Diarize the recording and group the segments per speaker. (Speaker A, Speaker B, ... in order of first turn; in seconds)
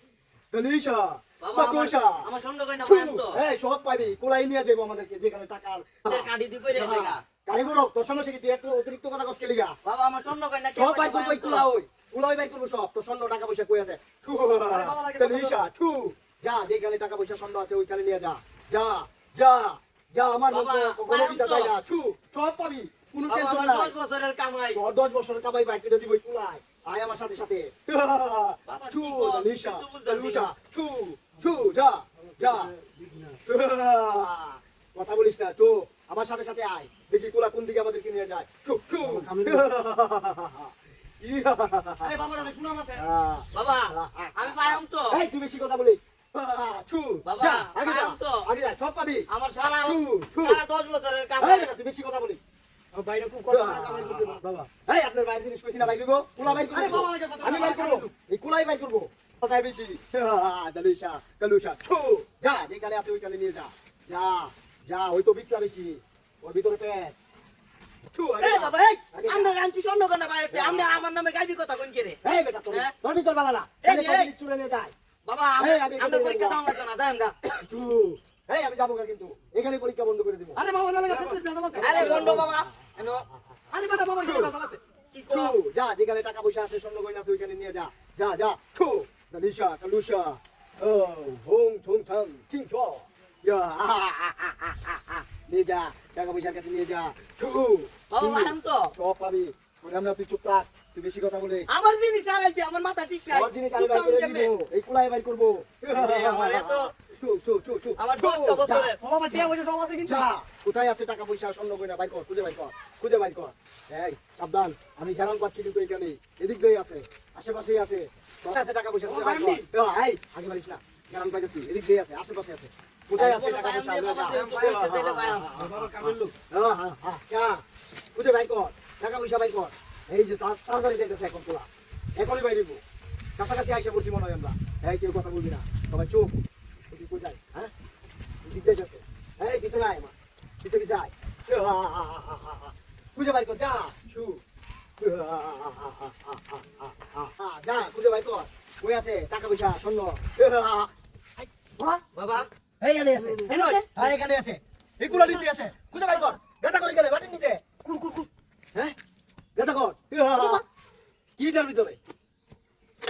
Speaker A: 0.5-2.3, 2.8-9.8, 10.8-23.9, 24.7-32.7, 33.5-49.3, 49.8-50.6, 51.4-52.4, 53.5-67.2, 68.1-69.5, 70.5-71.0, 72.2-74.9, 75.6-76.7, 77.4-82.7, 84.2-84.5, 85.3-101.7, 103.3-109.5, 110.0-127.6, 128.2-132.8, 133.4-137.7, 138.4-144.4, 145.0-152.0, 152.8-157.7, 159.6-160.6, 161.4-162.0
Speaker B: 1.4-3.4, 6.0-7.2, 9.8-11.7, 20.5-21.8, 23.3-24.8, 28.7-30.6, 43.5-45.2, 47.2-48.5, 49.3-51.7, 52.9-54.3, 68.4-73.0, 73.8-74.3, 75.2-77.4, 81.8-83.3, 85.1-85.5, 98.1-98.9, 101.7-104.5, 105.9-106.9, 108.0-109.0, 123.2-126.1, 152.1-152.5, 153.4-154.1, 157.8-158.2
Speaker C: 14.7-15.6, 32.3-33.4, 39.0-39.7, 42.0-43.0, 53.7-54.7, 56.4-58.1, 80.6-82.5, 83.7-84.8, 108.6-110.3, 119.1-119.6, 124.3-124.8, 125.5-126.3, 153.4-153.7